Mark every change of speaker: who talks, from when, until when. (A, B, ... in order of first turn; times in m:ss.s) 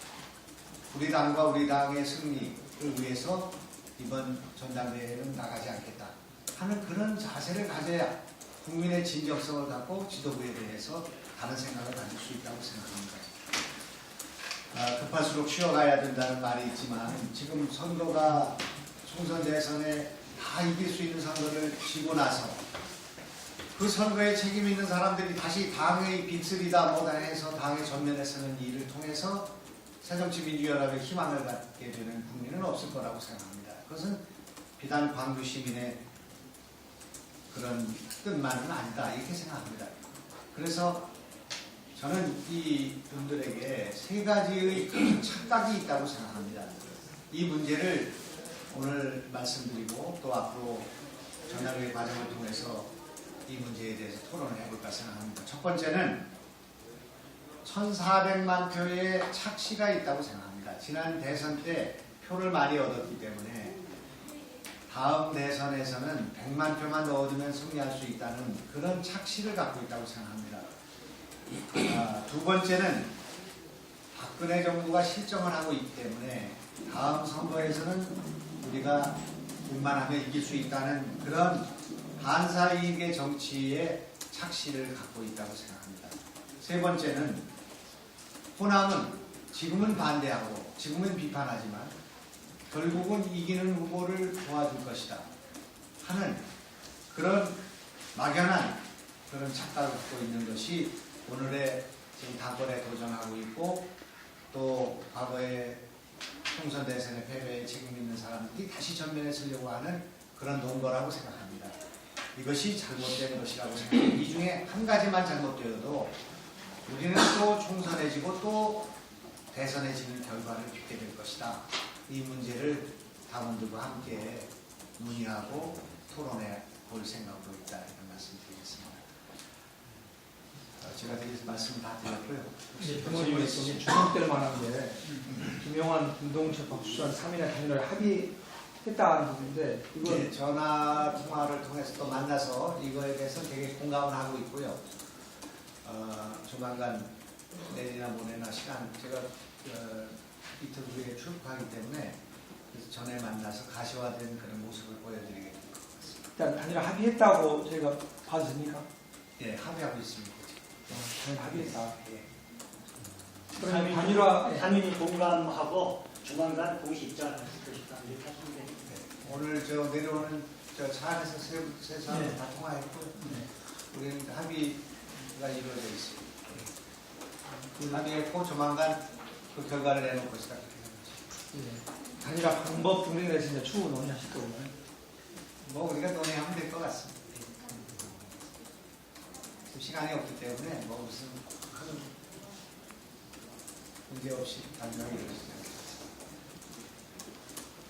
0:00.9-0:13.4 A
0:14.7-0:22.6 A
0:23.7-0:34.2 A
0:34.8-0:36.0 A
0:37.5-0:39.9 A
0:40.5-0:41.1 A
0:41.9-0:48.2 A
0:48.7-0:50.9 A
0:51.5-0:52.9 A
0:53.5-0:56.2 A
0:57.6-1:03.8 A
1:04.9-1:10.6 A
1:11.7-1:13.1 A
1:14.1-1:27.5 A
1:28.6-1:31.9 A
1:32.7-1:35.3 A
1:36.0-1:36.4 A
1:37.1-1:37.6 A
1:38.1-1:43.9 A
1:44.5-1:45.8 A
1:46.5-1:51.7 A
1:52.3-1:56.2 A
1:56.8-1:58.9 A
1:59.5-2:09.0 A
2:10.8-2:14.0 A
2:12.8-2:20.3 B
2:20.0-2:24.8 A
2:25.8-2:27.1 A
2:27.6-2:32.2 A
2:32.7-2:36.2 A
2:36.4-2:38.8 B
2:39.4-2:40.8 A
2:40.9-2:41.9 B
2:41.9-2:42.2 A
2:43.5-2:44.7 B
2:43.6-2:48.7 C
2:48.9-2:56.6 A
2:53.2-2:53.5 B
2:57.7-2:58.0 B
2:57.9-3:01.2 A
3:01.5-3:04.7 B
3:05.6-3:07.4 A
3:09.7-3:12.1 A
3:14.1-3:16.0 A